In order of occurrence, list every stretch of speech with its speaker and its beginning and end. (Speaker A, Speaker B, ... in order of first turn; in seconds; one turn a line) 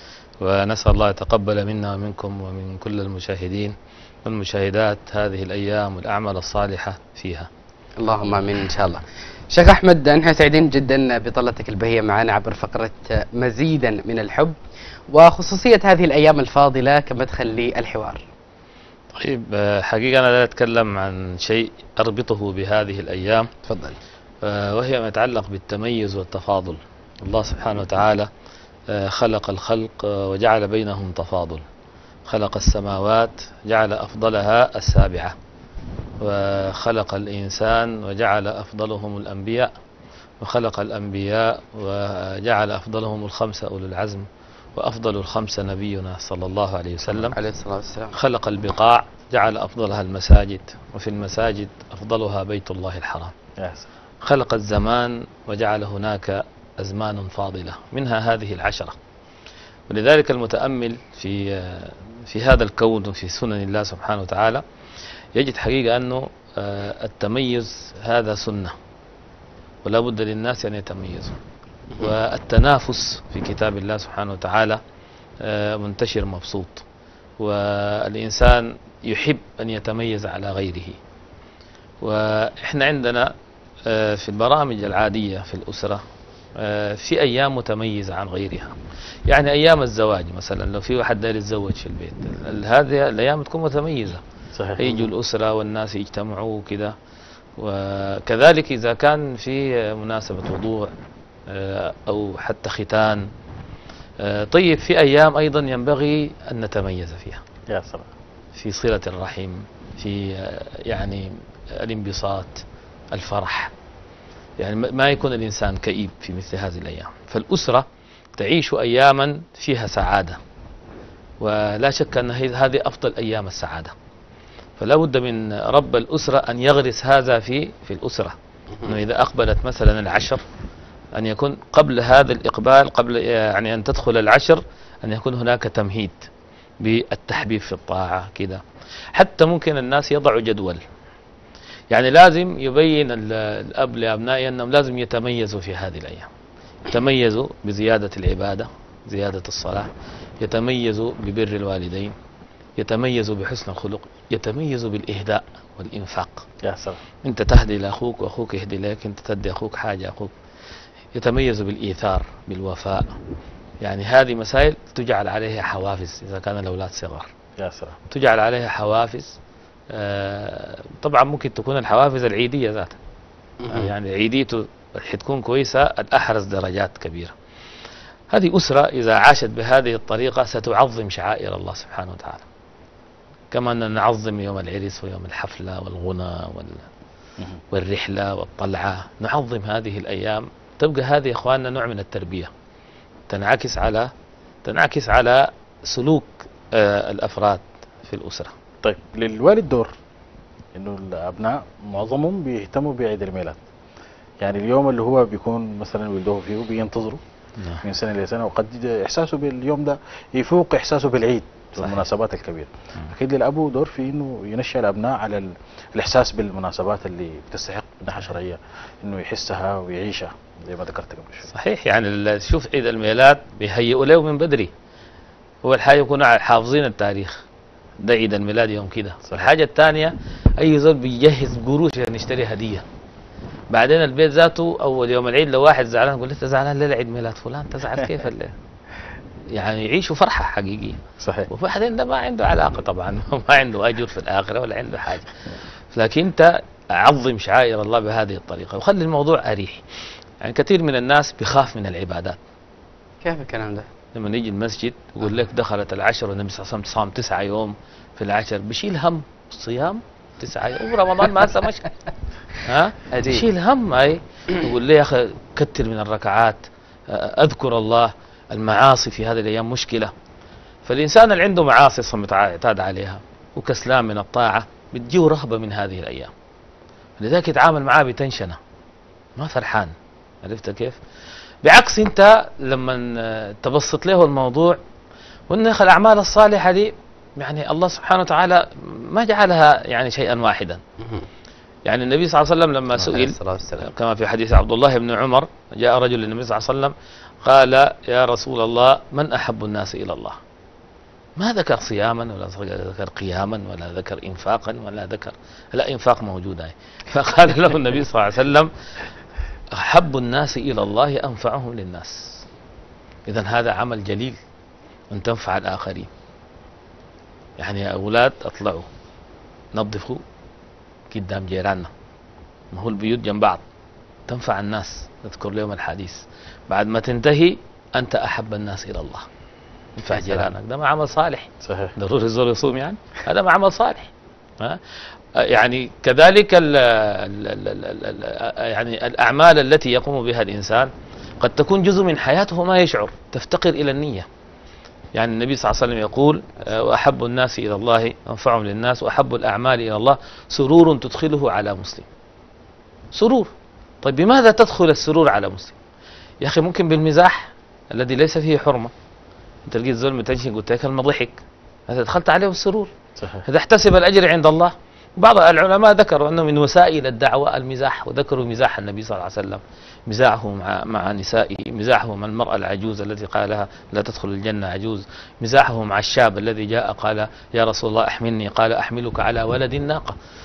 Speaker A: 0.4-7.5
Speaker B: 8.0-14.6
Speaker B: 15.1-18.2
Speaker A: 19.1-23.5
Speaker B: 23.7-24.0
Speaker A: 24.4-28.3
Speaker A: 28.9-31.7
Speaker A: 32.3-35.4
Speaker A: 36.2-39.7
Speaker A: 40.4-47.4
Speaker B: 47.2-48.1
Speaker A: 48.1-53.3
Speaker C: 53.6-53.9
Speaker A: 54.2-59.0
Speaker A: 59.9-64.6
Speaker A: 65.3-68.8
Speaker A: 69.8-71.4
Speaker A: 72.0-74.8
Speaker A: 75.4-76.8
Speaker A: 77.4-81.0
Speaker A: 82.0-83.3
Speaker A: 83.8-86.0
Speaker A: 86.5-94.2
Speaker C: 94.5-95.1
Speaker A: 94.8-97.0
Speaker A: 97.6-100.9
Speaker A: 101.5-103.3
Speaker A: 104.2-107.4
Speaker C: 107.7-108.1
Speaker A: 108.5-113.7
Speaker A: 114.6-120.4
Speaker A: 121.4-124.0
Speaker A: 124.8-130.4
Speaker A: 131.2-136.2
Speaker A: 136.8-140.8
Speaker A: 141.9-146.3
Speaker A: 146.8-149.9
Speaker A: 150.4-152.2
Speaker A: 152.8-156.5
Speaker C: 156.6-157.0
Speaker A: 157.2-160.3
Speaker A: 161.1-163.1
Speaker A: 163.8-167.3
Speaker C: 167.6-168.0
Speaker A: 168.1-169.4
Speaker A: 169.9-173.0
Speaker B: 173.6-173.9
Speaker A: 173.7-177.3
Speaker A: 178.3-182.4
Speaker A: 183.5-186.9
Speaker A: 187.7-192.5
Speaker A: 193.3-194.1
Speaker A: 194.6-198.5
Speaker C: 198.8-199.9
Speaker C: 200.8-203.6
Speaker C: 204.4-207.2
Speaker A: 207.6-207.8
Speaker C: 207.8-221.5
Speaker A: 211.8-212.1
Speaker A: 221.5-224.7
Speaker A: 225.6-227.4
Speaker A: 228.0-232.8
Speaker A: 233.7-238.6
Speaker A: 239.5-245.3
Speaker C: 241.2-241.5
Speaker A: 245.9-249.8
Speaker A: 250.4-252.4
Speaker B: 253.2-253.9
Speaker A: 254.1-261.9
Speaker A: 262.6-270.1
Speaker B: 263.1-263.5
Speaker A: 270.9-276.3
Speaker A: 277.2-278.6
Speaker A: 279.4-281.0
Speaker A: 281.6-284.8
Speaker A: 285.5-290.8
Speaker B: 291.0-291.3
Speaker A: 291.9-300.4
Speaker B: 293.0-293.9
Speaker A: 301.4-308.7
Speaker A: 309.7-312.4
Speaker A: 313.3-314.4
Speaker A: 315.1-316.1
Speaker A: 317.6-318.9
Speaker A: 319.7-320.2
Speaker A: 321.1-321.9
Speaker A: 322.7-323.6
Speaker A: 324.3-329.3
Speaker A: 330.0-334.8
Speaker B: 330.1-330.5
Speaker C: 331.6-331.9
Speaker A: 335.4-344.3
Speaker A: 345.2-352.1
Speaker A: 353.1-353.5
Speaker A: 354.0-355.8
Speaker A: 356.4-358.9
Speaker A: 359.7-362.9
Speaker C: 363.2-363.5
Speaker A: 363.4-380.2